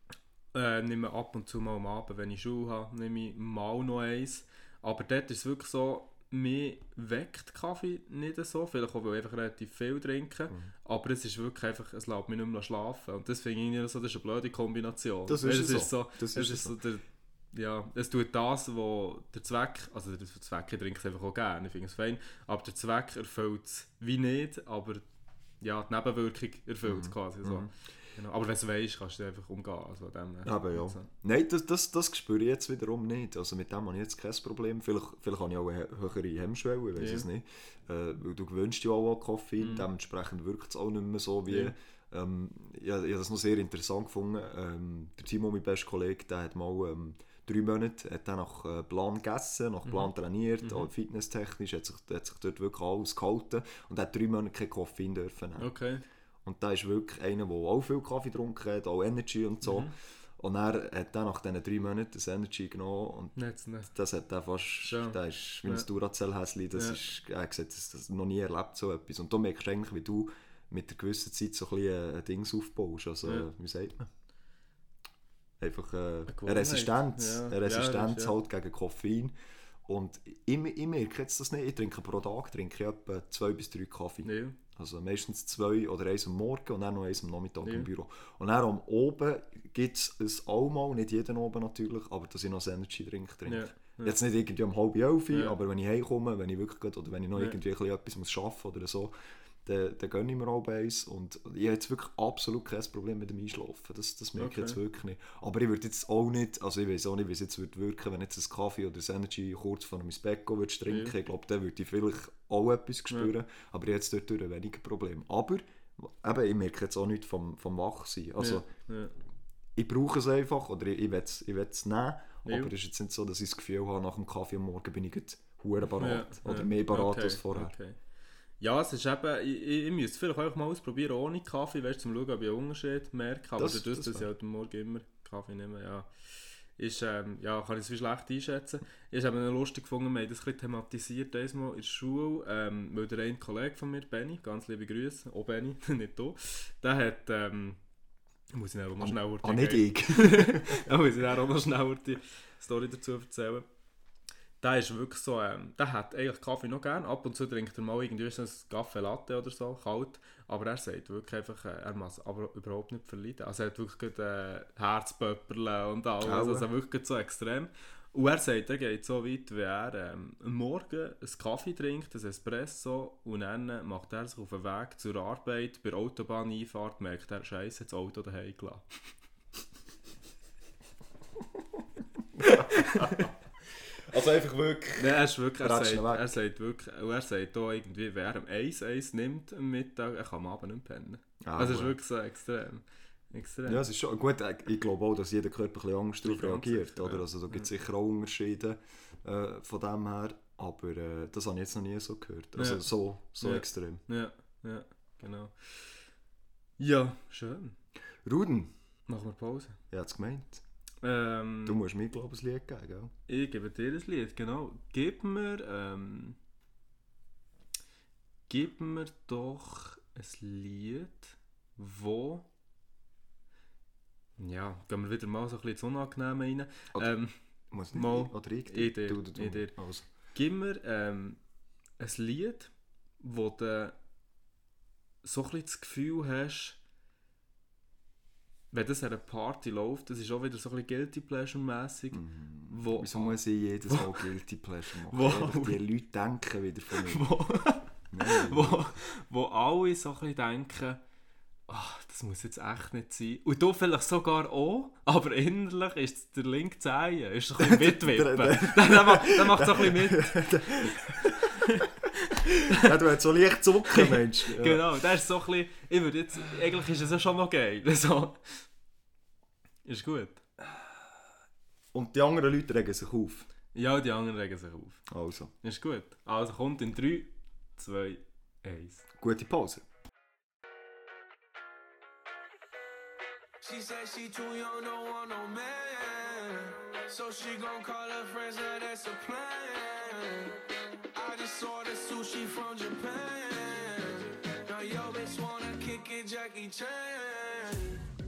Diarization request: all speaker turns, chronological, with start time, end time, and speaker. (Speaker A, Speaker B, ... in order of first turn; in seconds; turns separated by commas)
Speaker A: 0.5-25.1, Speaker B: 15.3-16.8, Speaker A: 25.6-31.1, Speaker B: 26.9-27.7, Speaker B: 30.4-55.7, Speaker A: 37.0-37.3, Speaker A: 39.6-39.9, Speaker A: 41.5-41.7, Speaker A: 50.6-50.9, Speaker A: 55.6-56.0, Speaker B: 56.5-63.4, Speaker A: 59.6-59.9, Speaker A: 63.4-63.9, Speaker B: 63.9-74.1, Speaker A: 64.8-65.9, Speaker B: 75.6-79.3, Speaker A: 76.3-78.3, Speaker B: 79.9-99.1, Speaker A: 84.2-84.6, Speaker A: 93.5-94.2, Speaker B: 99.7-118.7, Speaker A: 104.4-104.8, Speaker A: 110.9-111.1, Speaker A: 118.4-119.1, Speaker B: 119.8-127.7, Speaker A: 122.5-122.7, Speaker A: 126.0-128.0, Speaker A: 128.6-136.1, Speaker B: 133.6-134.3, Speaker A: 136.8-147.8, Speaker A: 148.5-153.7, Speaker B: 149.0-150.8, Speaker A: 154.6-178.9, Speaker B: 166.2-166.7, Speaker B: 182.4-183.3, Speaker A: 182.4-183.2, Speaker B: 184.0-186.4, Speaker A: 185.0-193.8, Speaker B: 191.4-191.9, Speaker B: 193.7-204.0, Speaker A: 196.2-197.7, Speaker A: 202.6-202.9, Speaker A: 203.4-206.0, Speaker A: 206.8-207.8, Speaker B: 208.2-208.7, Speaker A: 209.1-209.8, Speaker B: 209.9-210.6, Speaker A: 211.0-211.8, Speaker B: 211.7-213.1, Speaker A: 213.3-216.4, Speaker A: 218.5-222.5, Speaker A: 224.4-227.3, Speaker B: 227.7-230.1, Speaker A: 227.9-229.7, Speaker A: 230.3-231.4, Speaker A: 232.0-234.0, Speaker A: 235.2-236.8, Speaker A: 238.7-243.4, Speaker B: 242.1-247.3, Speaker A: 243.9-244.2, Speaker A: 245.1-245.8, Speaker A: 246.9-251.0, Speaker B: 248.1-248.9, Speaker A: 251.7-261.9, Speaker B: 257.6-261.8, Speaker B: 262.5-264.9, Speaker A: 263.9-268.7, Speaker A: 269.9-270.4, Speaker B: 271.9-273.5, Speaker A: 273.7-275.1, Speaker B: 275.1-275.5, Speaker A: 275.6-279.1, Speaker B: 279.2-279.9, Speaker C: 283.6-290.6, Speaker C: 291.1-297.9